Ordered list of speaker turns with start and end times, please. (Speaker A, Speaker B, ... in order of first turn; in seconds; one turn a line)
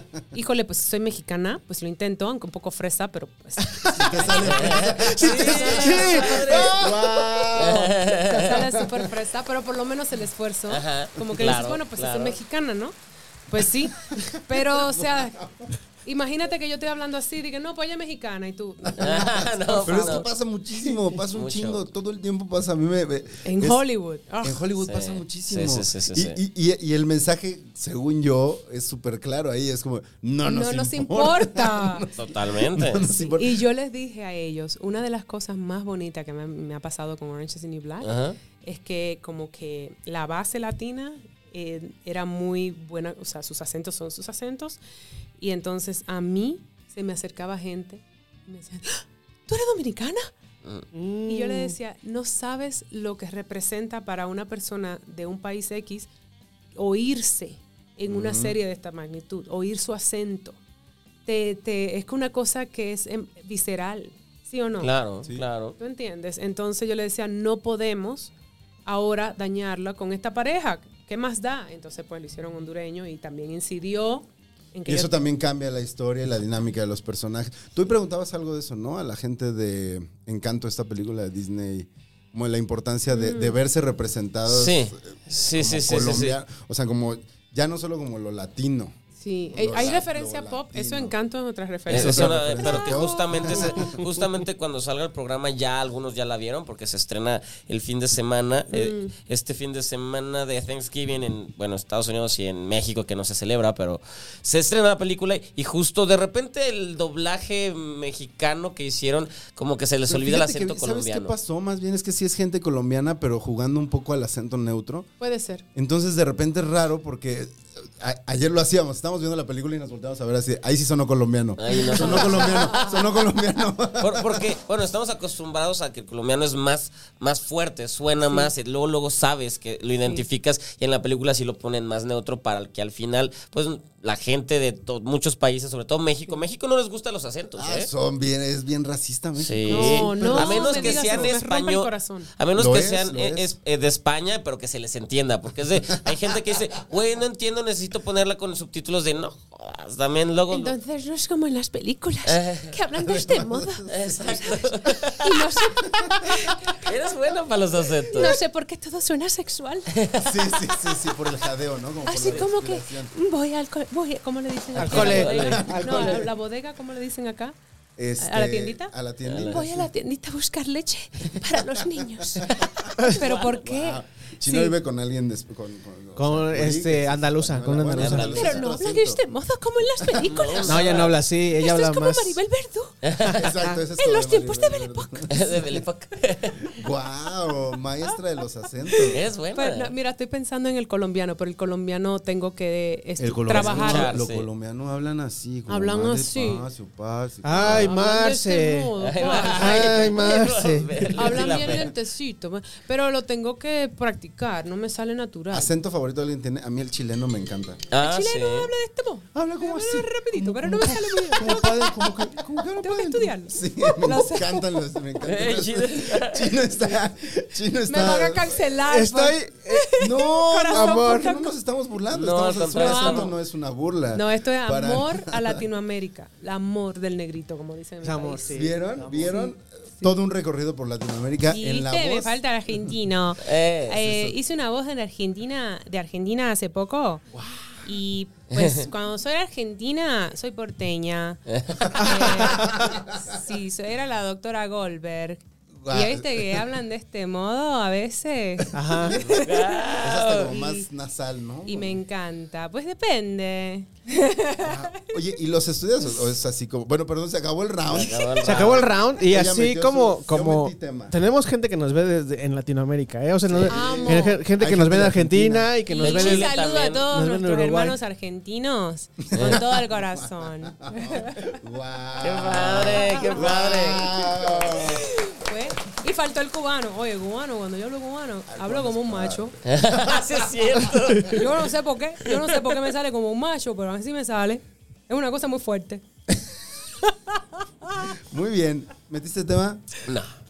Speaker A: 0.3-12.9
Speaker B: 3.9-9.0
Speaker C: 4.2-6.9
Speaker D: 5.7-6.3
Speaker C: 7.5-8.6
Speaker C: 10.7-12.4
Speaker A: 13.5-15.4
Speaker B: 14.2-15.7
Speaker A: 16.0-20.3
Speaker B: 18.9-23.8
Speaker C: 19.0-20.2
Speaker C: 21.3-21.9
Speaker A: 23.4-24.6
Speaker B: 24.4-33.6
Speaker C: 24.8-26.4
Speaker A: 30.4-32.1
Speaker C: 32.1-33.1
Speaker A: 33.0-44.8
Speaker C: 38.0-38.4
Speaker A: 45.4-50.3
Speaker D: 50.9-51.8
Speaker A: 51.3-56.1
Speaker A: 56.8-60.6
Speaker B: 58.1-58.6
Speaker A: 61.3-64.9
Speaker C: 64.8-65.8
Speaker A: 65.8-68.3
Speaker A: 68.9-75.1
Speaker B: 74.9-89.0
Speaker A: 83.1-83.6
Speaker C: 84.5-86.4
Speaker A: 89.2-94.0
Speaker B: 89.5-91.1
Speaker B: 91.9-94.0
Speaker C: 91.9-111.3
Speaker A: 98.7-99.1
Speaker B: 110.1-115.1
Speaker A: 115.2-115.6
Speaker B: 115.8-124.5
Speaker C: 121.6-123.1
Speaker A: 121.7-122.9
Speaker C: 124.0-137.9
Speaker B: 137.6-141.4
Speaker C: 139.4-150.8
Speaker A: 139.7-142.3
Speaker B: 142.6-143.5
Speaker A: 150.5-153.9
Speaker C: 152.3-152.7
Speaker B: 153.0-155.1
Speaker C: 153.9-155.4
Speaker A: 155.2-156.9
Speaker B: 155.8-156.3
Speaker C: 156.8-158.4
Speaker A: 158.1-159.9
Speaker C: 159.9-160.4
Speaker B: 160.2-163.1
Speaker A: 162.1-167.6
Speaker D: 164.8-166.3
Speaker C: 164.8-166.0
Speaker B: 165.0-166.3
Speaker B: 168.0-169.9
Speaker A: 168.2-174.8
Speaker C: 169.3-169.6
Speaker B: 171.5-179.2
Speaker D: 176.2-178.6
Speaker C: 177.9-178.5
Speaker A: 178.3-183.0
Speaker B: 180.0-180.3
Speaker C: 180.3-181.2
Speaker D: 180.7-182.4
Speaker C: 183.0-183.5
Speaker D: 183.2-183.8
Speaker B: 183.3-185.8
Speaker A: 183.9-185.6
Speaker C: 185.3-186.8
Speaker B: 186.7-189.2
Speaker A: 188.8-194.1
Speaker C: 189.1-189.9
Speaker B: 193.2-197.9
Speaker C: 193.5-194.5
Speaker A: 195.7-196.7
Speaker D: 197.4-198.9
Speaker A: 197.5-200.1
Speaker C: 199.0-201.9
Speaker D: 199.4-201.1
Speaker A: 201.2-205.7
Speaker B: 201.4-201.9
Speaker B: 205.5-207.8
Speaker C: 207.9-208.7
Speaker A: 207.9-214.7
Speaker B: 209.3-218.7
Speaker D: 211.2-211.8
Speaker C: 215.2-216.6
Speaker A: 217.9-221.5
Speaker D: 218.9-220.0
Speaker B: 220.0-225.6
Speaker D: 220.7-221.3
Speaker C: 222.1-223.3
Speaker A: 222.7-223.3
Speaker A: 224.1-228.5
Speaker D: 228.0-229.4
Speaker B: 228.5-232.3
Speaker A: 229.3-230.1
Speaker A: 231.5-237.2
Speaker C: 233.4-234.0
Speaker B: 233.9-234.3
Speaker A: 237.8-250.9
Speaker C: 238.5-238.9
Speaker C: 241.5-242.1
Speaker B: 242.5-243.4
Speaker B: 245.8-246.6
Speaker D: 248.7-249.2
Speaker B: 248.9-252.0
Speaker C: 249.3-250.5
Speaker A: 251.7-255.0
Speaker B: 254.6-261.2
Speaker C: 257.9-258.9
Speaker D: 258.4-266.5
Speaker B: 263.5-265.7
Speaker A: 263.6-264.4
Speaker A: 265.9-271.5
Speaker C: 266.0-267.1
Speaker D: 267.1-268.0
Speaker B: 269.3-275.1
Speaker C: 269.4-269.6
Speaker C: 272.2-274.1
Speaker A: 274.7-279.6
Speaker B: 278.5-279.5
Speaker C: 279.6-281.7
Speaker A: 281.3-286.0
Speaker C: 282.2-282.8
Speaker B: 288.0-290.0
Speaker C: 290.1-290.3